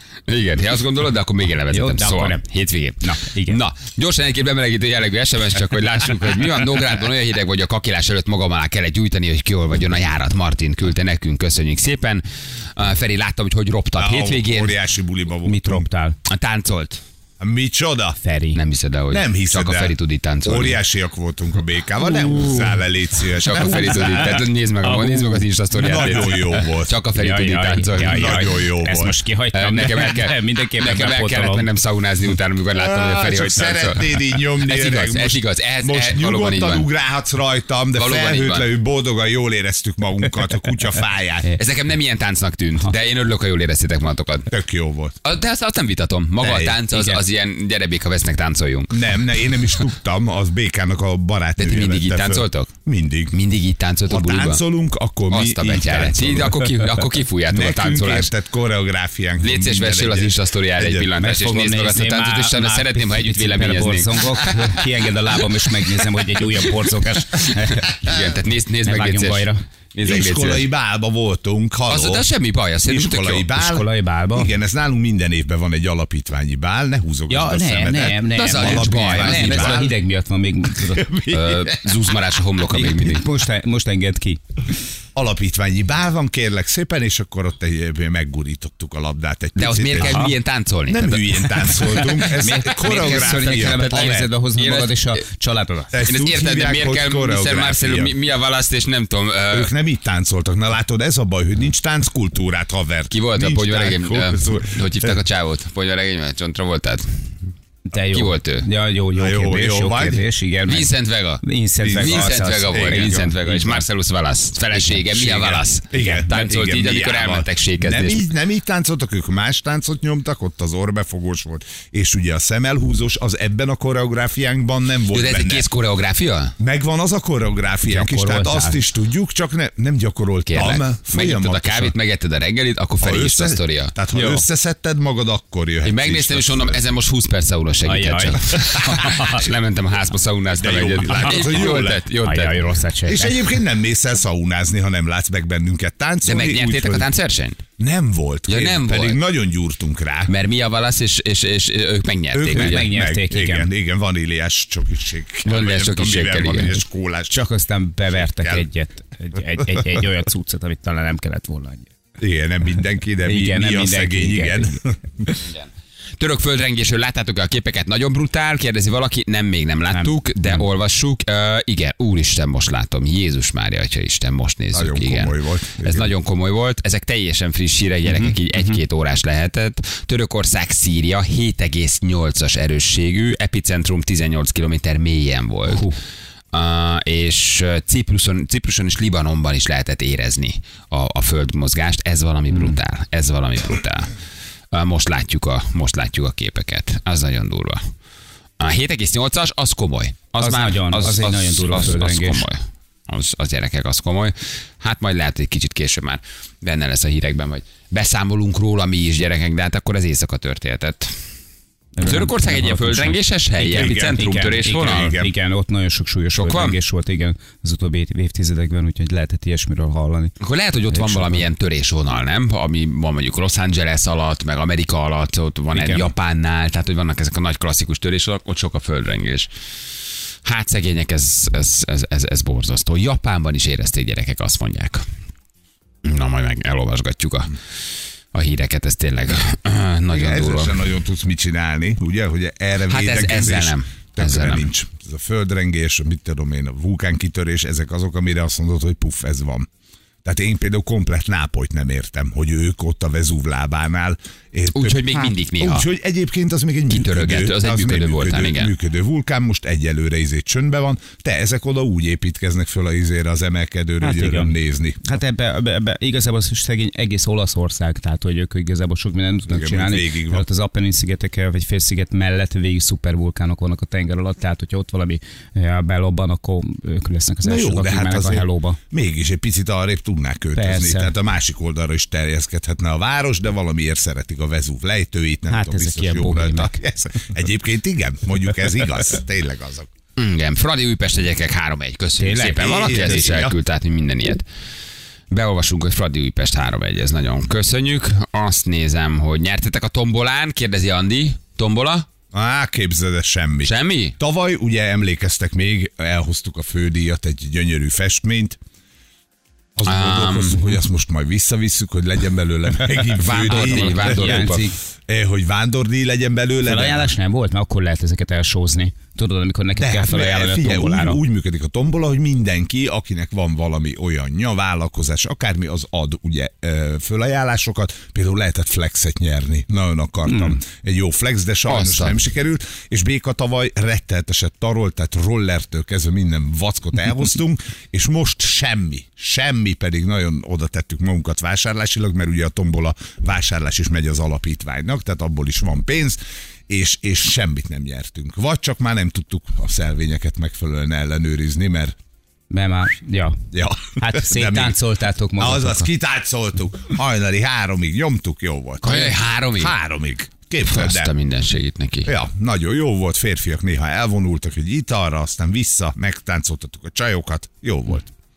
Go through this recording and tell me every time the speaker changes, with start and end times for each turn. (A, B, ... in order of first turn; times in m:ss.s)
0:00.3-0:12.2 A
0:01.7-0:02.4 B
0:03.0-0:03.6 B
0:12.8-0:14.8 A
0:14.0-0:15.8 C
0:15.4-0:16.2 B
0:16.3-0:17.0 A
0:17.4-0:18.2 C
0:18.2-0:18.6 B
0:18.5-0:20.8 A
0:19.1-0:24.3 C
0:22.2-0:22.6 B
0:23.4-0:28.4 A
0:24.8-0:26.6 B
0:25.7-0:27.0 C
0:27.1-0:31.7 B
0:28.0-0:29.2 C
0:29.5-0:36.9 A
0:32.7-0:41.5 C
0:37.9-0:38.7 A
0:41.6-0:44.5 A
0:44.5-0:45.2 C
0:45.2-0:49.0 A
0:46.4-0:46.8 C
0:46.9-0:47.2 B
0:48.9-0:53.4 C
0:51.6-0:52.7 A
0:53.3-0:54.6 A
0:54.1-0:56.6 C
0:55.3-0:58.3 A
0:57.5-1:01.1 C
0:59.4-1:04.6 A
1:01.2-1:07.9 B
1:07.5-1:10.7 A
1:08.8-1:09.6 B
1:10.0-1:12.2 C
1:11.9-1:13.5 A
1:12.8-1:19.9 C
1:13.6-1:14.5 B
1:17.3-1:21.1 B
1:18.3-1:19.9 A
1:20.8-1:22.1 C
1:21.3-1:23.2 A
1:22.7-1:24.4 B
1:25.1-1:30.2 C
1:29.6-1:31.9 A
1:30.0-1:30.3 B
1:30.9-1:34.3 C
1:32.2-1:36.0 B
1:33.3-1:35.2 A
1:35.9-1:38.1 C
1:36.0-1:39.7 A
1:39.5-1:45.2 C
1:43.1-1:47.0 A
1:47.9-1:53.8 B
1:48.1-1:48.7 A
1:49.1-1:50.2 C
1:50.7-1:58.2 A
1:51.8-1:53.3 C
1:54.9-2:05.7 C
1:55.9-1:56.2 B
2:05.1-2:06.5 A
2:06.6-2:11.9 C
2:07.9-2:08.8 B
2:10.5-2:14.0 A
2:13.0-2:16.8 C
2:15.8-2:22.6 A
2:17.8-2:19.4 B
2:18.6-2:19.1 C
2:20.5-2:22.0 C
2:21.0-2:23.5 B
2:23.0-2:27.1 C
2:26.2-2:27.6 A
2:27.8-2:30.3 C
2:28.5-2:29.2 A
2:30.3-2:32.9 A
2:32.3-2:37.4 C
2:32.5-2:33.7 B
2:35.4-2:36.8 A
2:37.3-2:41.9 B
2:38.2-2:38.6 C
2:42.2-2:45.3 C
2:43.2-2:44.8 B
2:45.4-2:45.6 A
2:46.2-3:05.9 A
2:49.9-2:50.6 B
2:54.7-2:56.1 C
2:58.0-2:58.8 B
3:05.7-3:06.0 B
3:06.5-3:14.1 A
3:12.5-3:12.8 B
3:14.7-3:17.8 A
3:18.6-3:31.1 A
3:20.4-3:22.4 B
3:32.0-3:40.3 B
3:32.0-3:35.1 A
3:33.7-3:35.3 C
3:36.4-3:36.7 A
3:40.4-3:49.5 A
3:40.9-3:41.4 B
3:45.7-3:46.1 B
3:50.4-3:55.0 A
3:56.0-3:57.6 A
3:58.3-4:00.8 A
4:00.1-4:09.7 C
4:02.9-4:04.7 A
4:10.2-4:25.0 C
4:14.7-4:15.9 A
4:16.9-4:18.7 A
4:24.0-4:38.8 B
4:29.5-4:30.4 C
4:37.4-4:49.9 C
4:40.6-4:41.1 B
4:45.5-4:46.8 B
4:50.2-4:54.4 A
4:52.2-4:53.2 B
4:52.5-4:53.6 C
4:55.3-5:02.1 A
5:02.3-5:08.6 C
5:03.6-5:04.2 A
5:09.8-5:17.1 C
5:09.8-5:10.7 A
5:13.2-5:14.6 A
5:13.5-5:14.8 B
5:16.6-5:21.2 B
5:19.8-5:51.9 C
5:30.3-5:30.6 B
5:31.7-5:32.2 A
5:52.5-5:53.4 B
5:53.5-5:54.8 C
5:54.0-5:55.9 B
5:55.4-6:01.1 C
5:58.8-5:59.7 A
6:00.6-6:02.1 A
6:02.0-6:08.1 C